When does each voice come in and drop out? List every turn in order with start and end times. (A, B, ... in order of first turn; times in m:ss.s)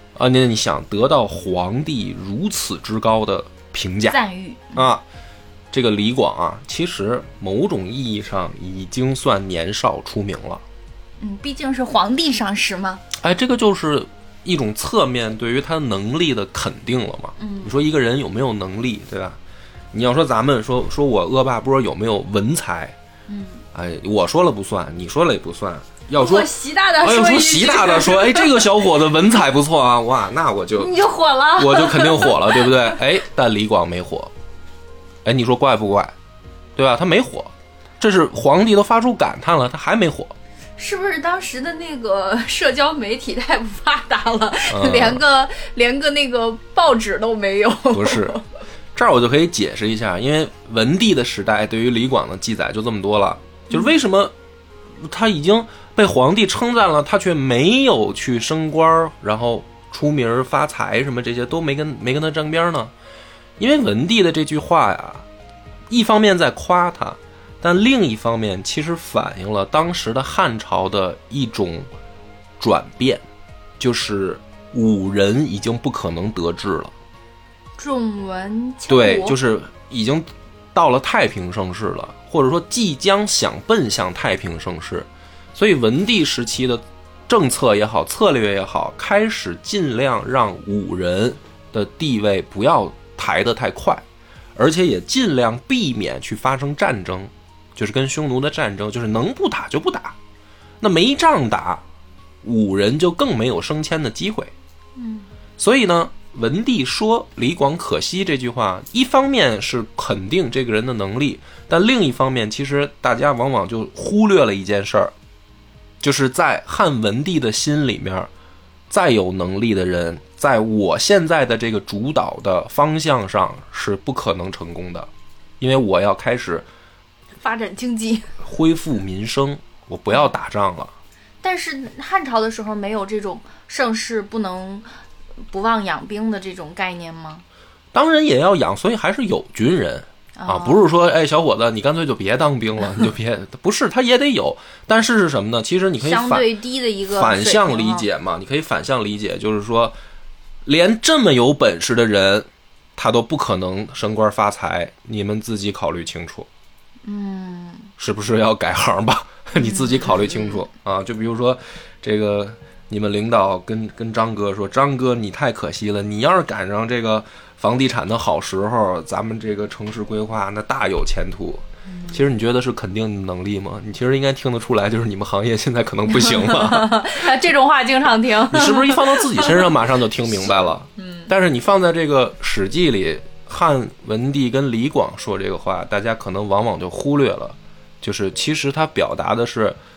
0:00.1-0:04.2 A
0:04.1-0:04.8 B
0:04.7-0:05.0 A
0:05.7-0:10.6 A
0:11.2-0:13.0 B
0:13.1-0:19.4 A
0:17.4-0:17.7 B
0:19.9-0:22.9 A
0:23.3-0:23.6 B
0:23.7-0:31.0 A
0:26.1-0:28.8 B
0:30.8-0:33.0 B
0:31.6-0:34.3 A
0:35.2-0:36.1 A
0:36.8-0:40.3 A
0:40.8-0:48.4 B
0:44.7-0:45.2 A
0:47.9-0:48.4 A
0:48.9-0:54.3 A
0:55.0-1:02.9 A
1:03.6-1:05.2 A
1:05.9-1:11.9 A
1:12.6-1:13.2 A
1:13.8-1:16.9 A
1:17.8-1:19.4 B
1:18.9-1:34.0 A
1:34.6-1:40.1 A
1:40.8-1:41.8 A
1:42.4-1:44.5 A
1:45.0-1:45.3 B
1:45.6-1:55.1 A
1:56.0-1:58.3 A
1:58.9-2:05.1 A
2:05.6-2:06.6 A
2:07.4-2:08.4 B
2:08.4-2:10.9 A
2:11.4-2:14.9 B
2:15.5-2:17.4 B
2:17.9-2:26.5 A
2:20.4-2:20.9 B
2:26.0-2:28.1 B
2:27.1-2:29.9 A
2:30.6-2:36.5 A
2:37.0-2:37.9 B
2:38.0-2:57.2 A
2:39.6-2:40.6 B
2:51.9-2:52.2 B
2:56.1-2:59.7 B
2:58.5-3:09.8 A
3:00.4-3:01.3 B